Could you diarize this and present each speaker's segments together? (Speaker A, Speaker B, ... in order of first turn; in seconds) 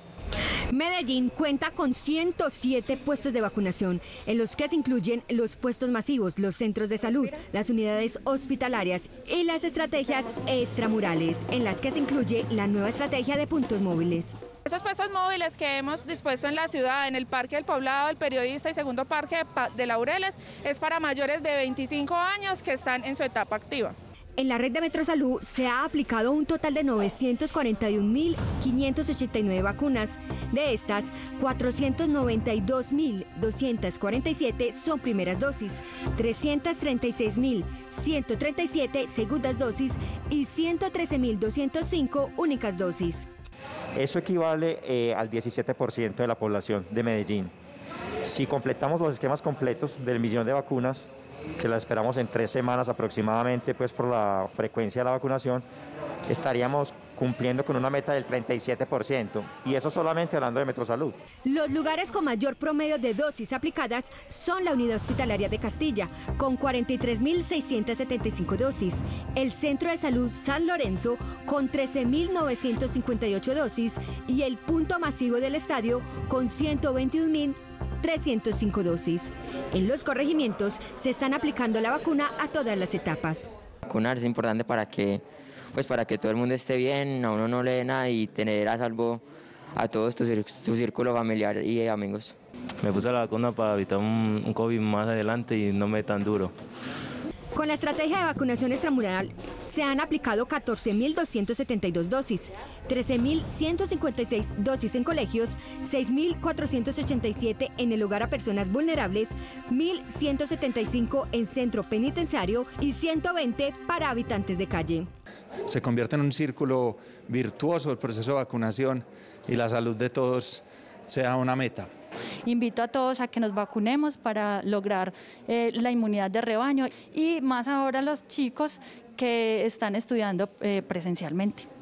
Speaker A: 0.7-14.3, 24.4-43.3, 61.4-83.5, 97.5-115.1
Speaker B: 14.6-23.9
Speaker C: 44.0-47.5, 48.2-55.6, 56.3-61.1
Speaker D: 83.8-85.2, 85.7-89.2, 89.7-92.3
Speaker E: 92.8-96.5
Speaker F: 115.7-121.9
Speaker G: 122.4-131.6